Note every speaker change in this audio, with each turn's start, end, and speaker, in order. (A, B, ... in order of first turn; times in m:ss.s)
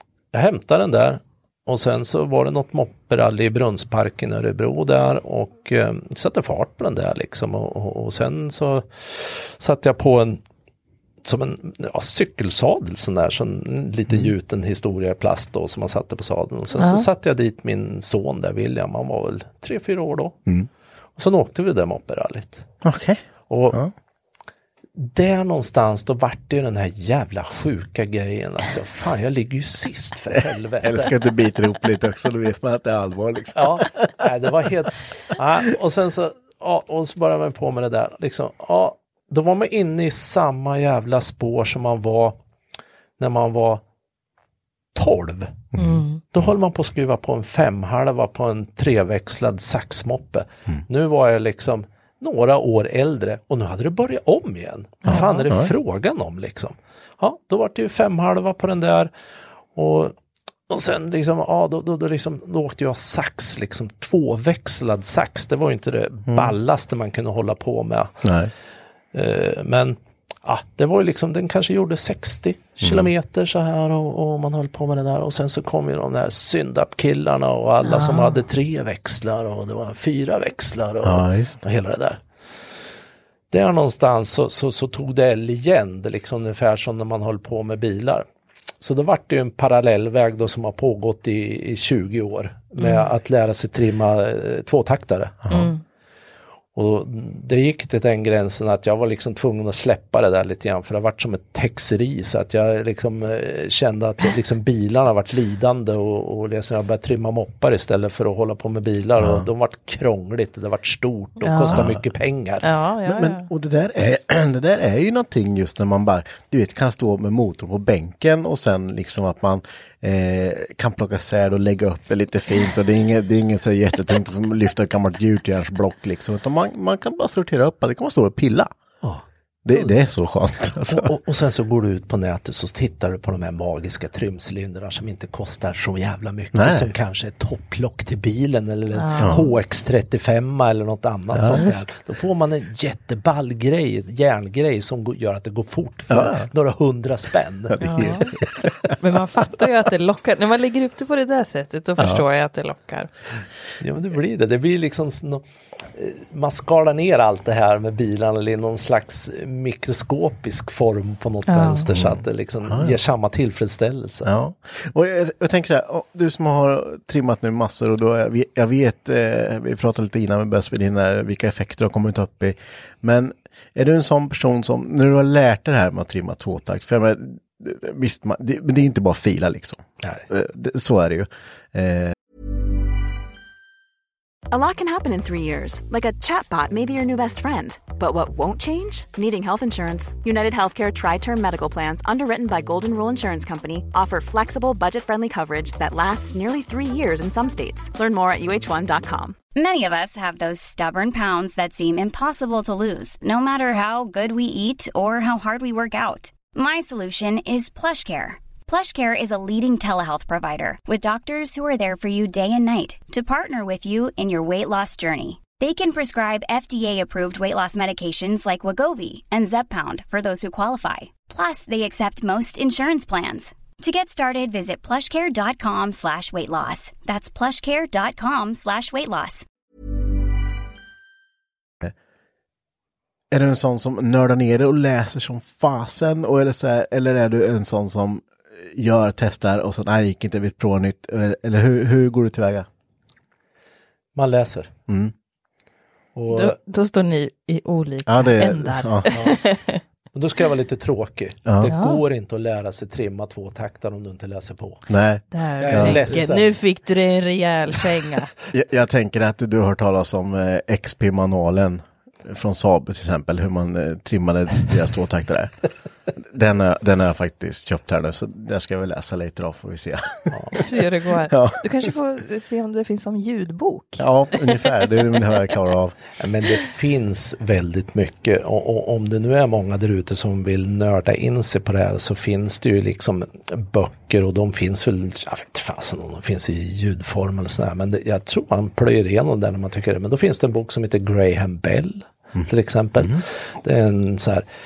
0:00.3-0:10.4 A
0:11.2-0:20.4 A
0:16.8-0:17.0 B
0:21.2-0:22.6 A
0:22.8-0:23.9 C
0:23.5-0:23.8 A
0:24.9-0:31.1 A
0:30.8-0:34.3 C
0:33.5-0:42.4 A
0:43.2-0:43.8 A
0:44.9-0:45.7 A
0:45.7-0:46.5 C
0:45.8-0:46.2 B
0:46.3-0:59.1 A
0:55.0-0:55.5 B
0:55.0-0:55.7 C
0:59.7-1:00.1 A
1:00.7-1:08.2 A
1:06.3-1:06.5 C
1:08.2-1:08.5 C
1:09.1-1:22.2 A
1:12.8-1:13.1 C
1:17.8-1:18.4 B
1:21.0-1:21.6 C
1:23.5-1:28.2 A
1:28.8-1:35.5 A
1:32.8-1:33.1 B
1:35.4-1:35.7 C
1:35.5-1:35.8 B
1:36.7-1:52.6 A
1:49.2-1:49.5 C
1:51.4-1:51.8 B
1:51.7-1:52.0 C
1:52.6-1:53.5 B
1:53.0-2:08.7 C
2:09.0-2:09.9 A
2:09.6-2:11.1 C
2:10.9-2:28.5 A
2:16.5-2:16.9 C
2:19.0-2:19.5 B
2:19.2-2:19.4 C
2:21.3-2:21.8 C
2:26.1-2:26.5 C
2:27.8-2:28.7 C
2:27.8-2:28.3 B
2:29.0-2:33.1 B
2:32.0-2:32.2 C
2:33.8-2:44.3 A
2:41.5-2:41.9 B
2:41.9-2:43.0 C
2:44.2-3:02.1 C
3:04.5-3:19.4 D
3:19.5-3:49.4 E
3:53.3-4:02.7 C
4:04.1-4:04.7 A
4:04.9-4:05.1 C
4:06.1-4:06.6 A
4:06.3-4:09.8 B
4:08.0-4:09.1 C
4:09.1-4:09.4 A
4:10.1-4:14.8 A
4:11.5-4:11.7 C
4:11.7-4:12.0 B
4:14.9-4:16.2 C
4:15.3-4:18.3 B
4:15.6-4:16.5 A
4:18.5-4:25.5 C
4:26.2-4:30.7 C
4:30.3-4:30.6 A
4:30.5-4:34.6 B
4:31.3-4:31.9 C
4:34.0-4:36.0 C
4:36.2-4:54.4 A